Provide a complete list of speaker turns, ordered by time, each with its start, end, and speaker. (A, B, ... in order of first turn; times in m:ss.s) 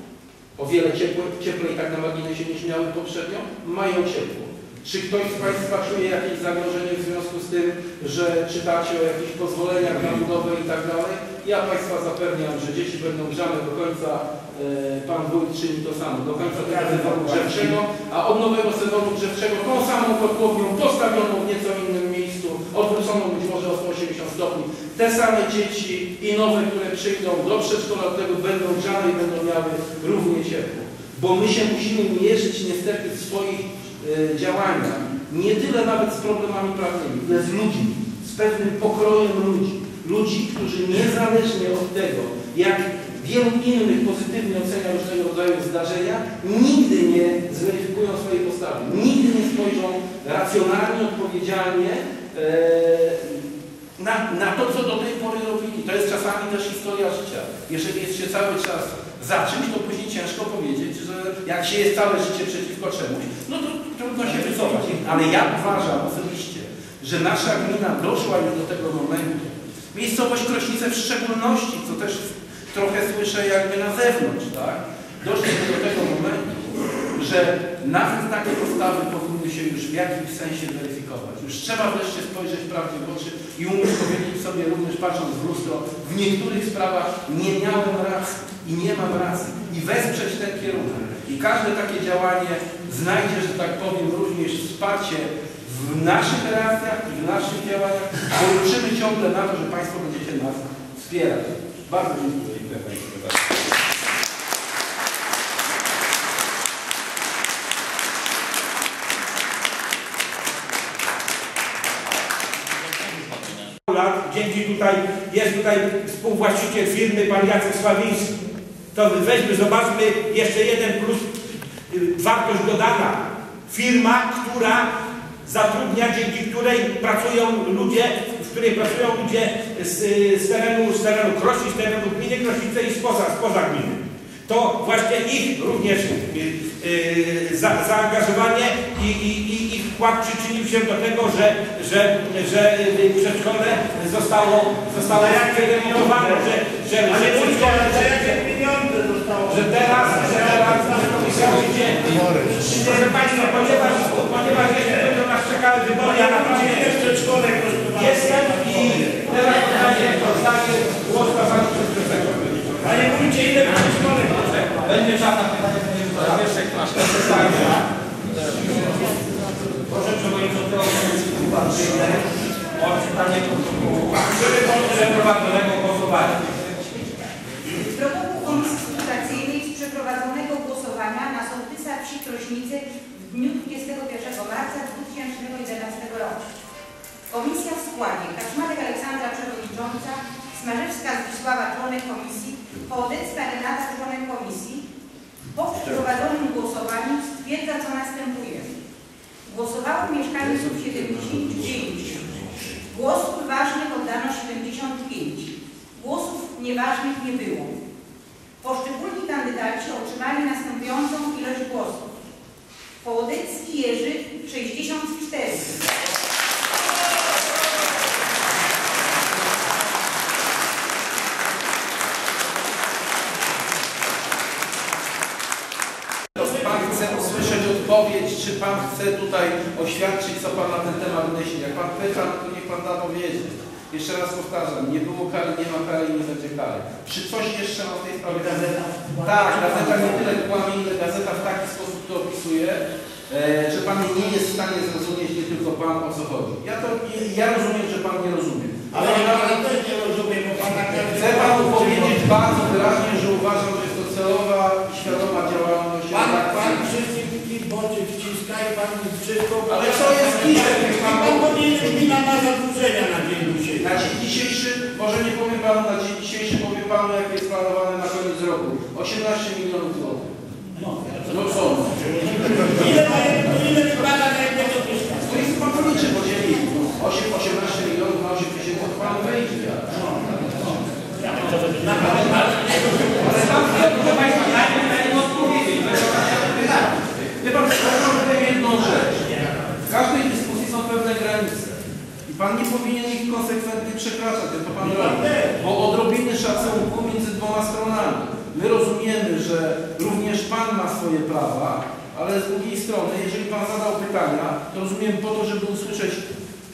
0:00.6-1:43.5 A
0:16.6-0:17.7 B
1:53.9-1:58.4 C
1:58.9-2:04.9 C
2:05.4-2:28.4 C
2:25.2-2:26.5 B
2:27.1-2:35.2 B
2:29.5-2:32.2 C
2:32.8-2:37.1 C
2:36.0-2:39.2 B
2:37.9-2:43.1 C
2:42.8-2:44.7 B
2:44.5-2:44.8 C
2:44.8-2:47.7 D
2:48.5-2:48.8 D
2:49.9-2:52.2 D
2:50.0-2:50.7 C
2:52.8-2:56.6 C
2:52.9-2:54.0 D
2:57.7-3:06.4 E
3:07.3-3:14.8 E
3:15.5-3:18.7 E
3:19.4-3:27.7 E
3:28.6-3:32.1 E
3:33.0-3:35.8 E
3:46.4-4:09.6 A
3:59.7-4:00.0 B
4:08.9-4:12.3 B
4:11.1-4:16.9 A
4:16.1-4:24.0 B
4:19.7-4:21.6 A
4:23.8-4:30.3 A
4:31.2-4:32.7 A
4:32.6-4:35.3 B
4:35.2-4:40.7 A
4:41.2-4:43.6 B
4:43.1-5:06.3 A
4:54.9-4:55.5 B